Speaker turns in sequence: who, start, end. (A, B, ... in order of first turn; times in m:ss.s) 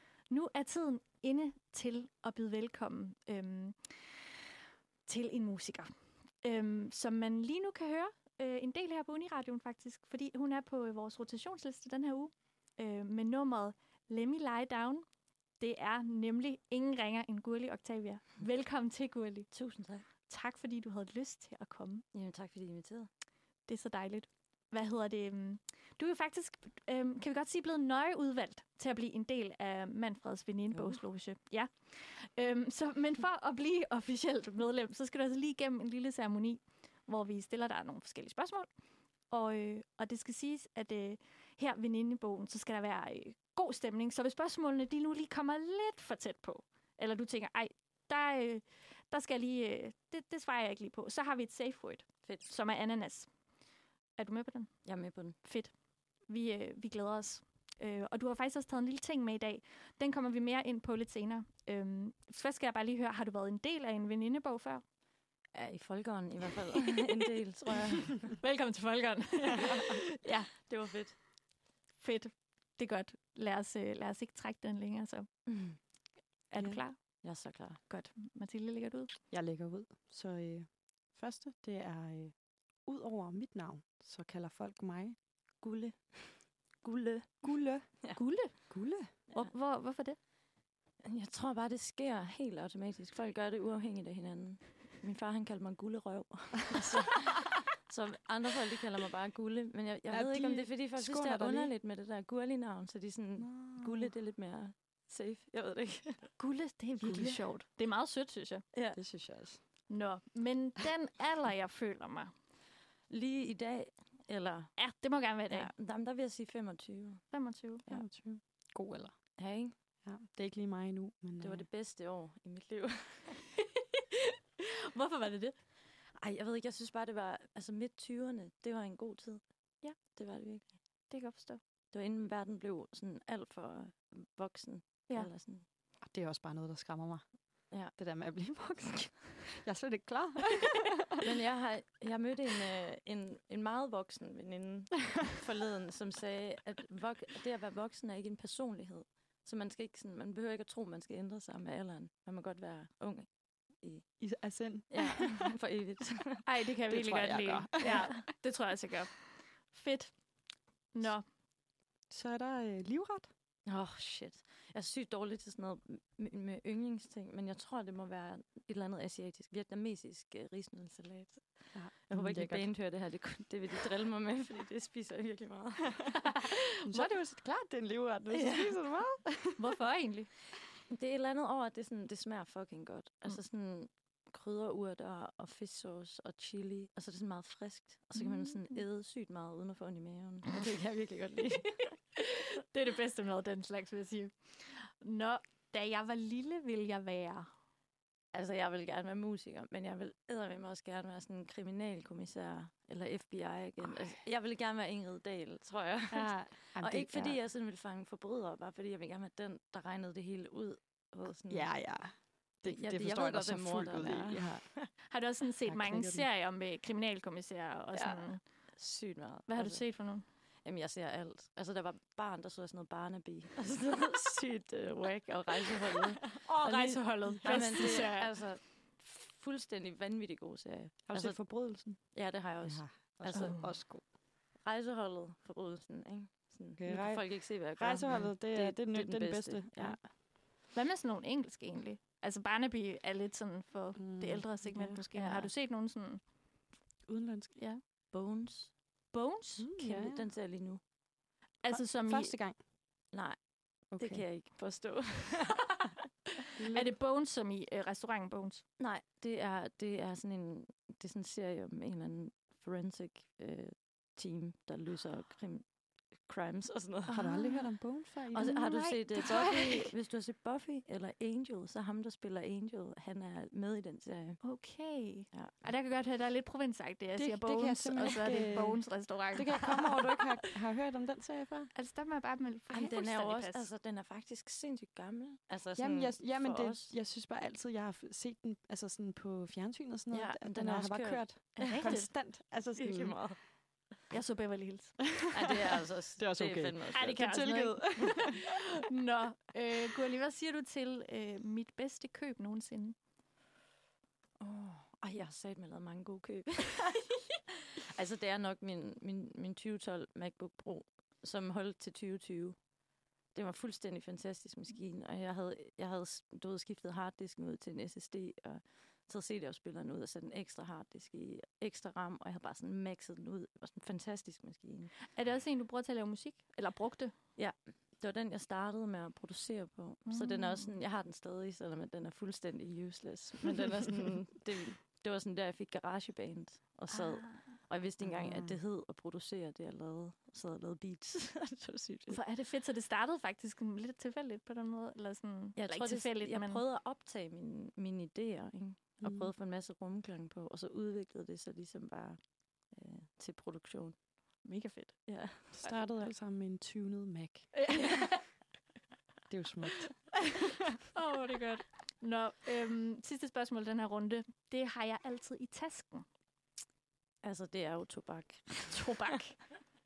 0:00.3-0:04.5 A
0:05.1-0:05.9 A
0:06.4-0:15.0 A
0:15.6-0:22.0 A
0:19.5-0:20.1 B
0:22.1-0:23.1 B
0:23.6-0:38.7 A
0:30.7-0:31.0 B
0:39.3-0:53.3 A
0:54.2-1:04.8 A
0:54.8-0:55.4 B
1:05.5-1:08.4 B
1:08.2-1:11.2 A
1:10.7-1:11.2 B
1:12.0-1:15.4 A
1:15.5-1:15.8 B
1:16.5-1:19.1 A
1:16.6-1:16.8 C
1:17.2-1:17.8 B
1:19.3-1:25.2 C
1:25.6-1:28.2 B
1:27.4-1:28.2 C
1:28.1-1:30.2 A
1:28.7-1:29.1 C
1:31.0-1:46.4 B
1:40.1-1:41.7 C
1:43.4-1:44.1 C
1:46.4-1:48.6 A
1:47.0-1:47.4 C
1:48.7-1:49.0 B
1:49.0-1:49.6 C
1:49.9-1:52.3 A
1:53.1-1:58.1 B
1:54.8-1:55.7 A
1:57.3-1:57.9 A
1:57.9-1:59.3 C
1:59.4-1:59.7 B
2:00.0-2:01.7 C
2:01.4-2:03.5 B
2:04.9-2:05.6 A
2:06.2-2:10.9 B
2:11.1-2:11.6 A
2:11.9-2:15.7 B
2:16.0-2:21.0 C
2:17.7-2:18.0 B
2:21.2-2:38.0 B
2:34.2-2:35.4 C
2:36.4-2:40.3 A
2:36.9-2:38.1 C
2:40.9-2:41.2 A
2:42.1-2:43.3 C
2:43.7-2:56.4 B
2:51.7-2:52.8 C
2:56.8-2:59.7 C
2:58.3-2:58.8 B
2:59.6-3:00.3 A
3:00.9-3:12.0 B
3:08.2-3:08.8 A
3:12.6-3:17.5 A
3:18.3-3:31.8 B
3:26.1-3:27.4 C
3:31.5-3:35.0 C
3:32.7-3:34.9 B
3:35.1-3:38.7 A
3:35.6-3:36.3 C
3:37.9-4:00.0 B
3:39.5-3:40.3 A
3:46.4-3:48.4 A
3:51.1-3:54.1 C
3:53.3-3:53.8 A
3:56.8-4:00.1 C
4:00.7-4:06.2 A
4:04.0-4:05.0 C
4:05.1-4:05.5 B
4:07.1-4:07.6 C
4:07.6-4:07.8 A
4:08.1-4:08.8 B
4:09.1-4:09.7 A
4:09.6-4:10.3 C
4:09.8-4:10.8 B
4:11.6-4:12.4 A
4:11.7-4:12.6 C
4:13.1-4:15.9 B
4:13.9-4:14.4 C
4:16.6-4:16.9 C
4:16.7-4:18.6 A
4:18.8-4:27.7 B
4:27.1-4:29.3 C
4:27.1-4:27.6 A
4:28.3-4:34.6 B
4:28.4-4:29.9 A
4:34.4-4:40.3 A
4:35.3-4:35.6 B
4:37.2-4:41.8 C
4:41.8-4:43.7 A
4:42.7-4:47.0 B
4:45.8-4:53.5 C
4:50.1-4:52.1 B
4:51.6-4:52.1 A
4:52.8-4:53.6 B
4:54.1-4:55.3 A
4:55.3-4:57.9 B
4:56.2-4:58.4 C
4:56.9-5:03.0 A
5:04.4-5:07.2 B
5:07.8-5:12.6 B
5:13.3-5:25.1 B
5:25.1-5:27.1 A
5:27.4-5:42.2 B
5:30.1-5:30.8 A
5:36.9-5:37.5 A
5:38.0-5:38.6 C
5:42.1-5:46.6 A
5:45.6-5:54.0 B
5:49.0-5:49.3 C
5:54.4-5:55.2 A
5:55.1-5:55.8 B
5:55.6-5:57.7 C
5:57.5-5:58.3 A
5:59.3-6:00.3 C
6:00.9-6:06.1 A
6:07.2-6:09.1 B
6:08.7-6:09.5 A